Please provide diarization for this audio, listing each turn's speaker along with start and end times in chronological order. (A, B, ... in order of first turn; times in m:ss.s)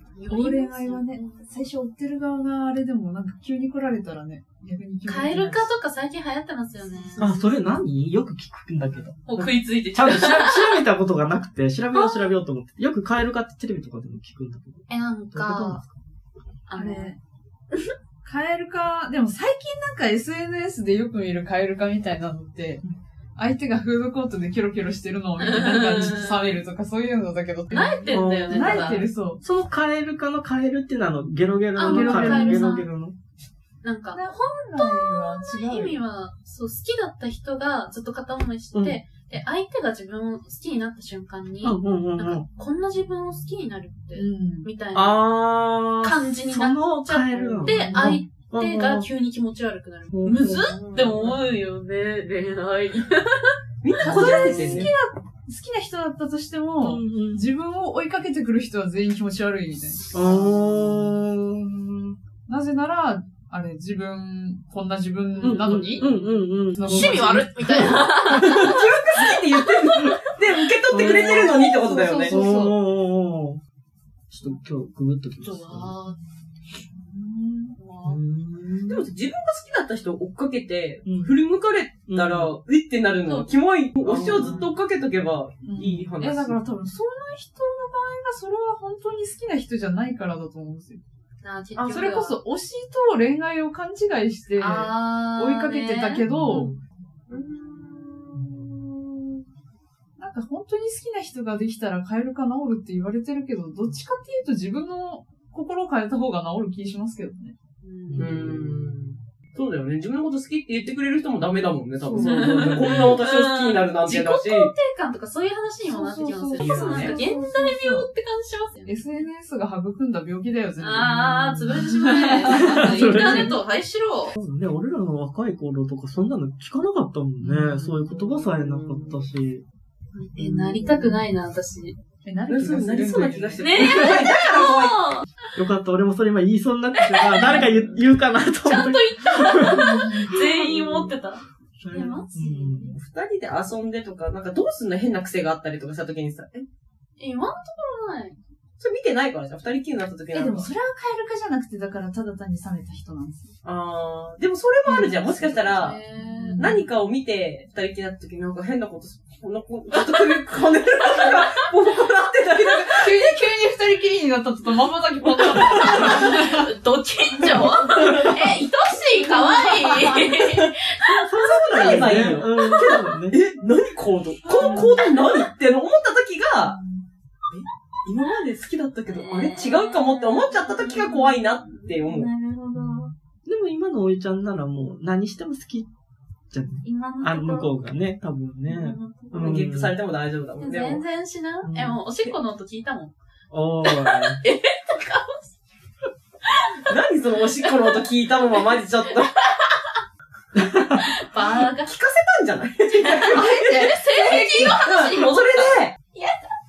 0:00.2-0:01.4 A
0:00.3-0:05.7 B
0:05.1-0:07.5 A
0:06.9-0:07.2 B
0:07.2-0:15.9 C
0:09.3-0:10.8 A
0:11.9-0:12.3 A
0:14.9-0:15.8 A
0:16.7-0:17.2 A
0:16.8-0:17.2 B
0:18.2-0:22.8 B
0:23.4-0:29.4 B
0:25.4-0:26.4 A
0:27.7-0:29.1 A
0:28.1-0:33.2 C
0:31.7-0:32.9 A
0:31.8-0:32.7 B
0:33.8-0:45.3 A
0:34.1-0:36.0 B
0:38.7-0:39.0 C
0:41.6-0:42.4 C
0:44.1-0:44.7 B
0:44.9-0:49.1 C
0:46.0-0:54.9 A
0:47.7-0:48.2 B
0:50.1-0:50.8 C
0:50.5-0:51.4 D
0:53.8-0:54.9 D
0:54.0-1:00.0 B
0:56.8-0:57.5 C
1:00.0-1:00.9 A
1:00.1-1:02.2 C
1:02.5-1:06.1 B
1:05.4-1:10.3 A
1:05.4-1:08.4 C
1:06.8-1:07.8 B
1:08.3-1:12.4 D
1:10.9-1:11.6 C
1:11.8-1:12.8 B
1:12.2-1:13.6 C
1:14.3-1:16.0 C
1:15.4-1:16.2 A
1:17.0-1:17.8 B
1:17.8-1:18.2 A
1:18.0-1:19.0 C
1:18.9-1:26.6 D
1:21.1-1:21.4 C
1:22.1-1:22.5 C
1:23.2-1:23.6 A
1:24.0-1:24.7 C
1:25.6-1:31.0 B
1:31.4-1:32.4 A
1:31.8-1:32.1 D
1:31.9-1:36.8 B
1:34.6-1:36.3 A
1:36.4-1:36.8 D
1:37.3-1:39.2 D
1:40.2-1:47.6 B
1:47.8-1:48.3 A
1:48.1-1:48.9 C
1:48.2-1:54.7 D
1:52.1-1:59.2 A
1:52.4-1:52.8 B
1:55.8-1:58.1 B
1:56.6-1:57.2 D
1:58.8-2:03.6 B
2:00.8-2:04.4 A
2:02.5-2:03.6 C
2:04.4-2:09.6 C
2:07.4-2:07.9 B
2:08.1-2:09.3 D
2:10.1-2:12.0 A
2:10.8-2:11.2 B
2:12.2-2:13.7 B
2:12.5-2:15.0 D
2:13.6-2:15.3 A
2:15.6-2:21.1 C
2:17.0-2:17.9 A
2:18.6-2:23.0 A
2:19.7-2:20.4 B
2:21.8-2:23.0 C
2:22.9-2:26.7 D
2:27.2-2:28.4 A
2:28.8-2:30.7 D
2:30.3-2:33.5 B
2:33.6-2:36.0 D
2:34.9-2:35.2 B
2:35.2-2:36.8 A
2:36.2-2:36.8 B
2:36.6-2:43.3 D
2:43.0-2:46.6 B
2:45.7-2:51.9 A
2:49.2-2:50.0 B
2:50.0-2:50.7 D
2:51.1-2:53.4 C
2:51.4-2:56.8 D
2:51.8-2:52.4 B
2:52.4-2:53.2 A
2:54.4-2:55.5 A
2:56.6-2:57.0 B
2:57.5-3:02.3 D
2:59.1-3:03.1 A
3:02.8-3:05.9 C
3:06.5-3:10.0 C
3:06.8-3:07.7 A
3:08.7-3:09.5 A
3:09.3-3:11.0 D
3:10.6-3:13.1 A
3:11.6-3:12.0 C
3:13.5-3:14.4 C
3:13.8-3:15.6 A
3:16.9-3:19.4 D
3:17.6-3:18.0 A
3:19.4-3:20.0 A
3:20.6-3:21.0 C
3:20.9-3:22.0 A
3:21.8-3:23.6 D
3:22.9-3:26.4 A
3:23.3-3:24.5 B
3:24.3-3:25.9 D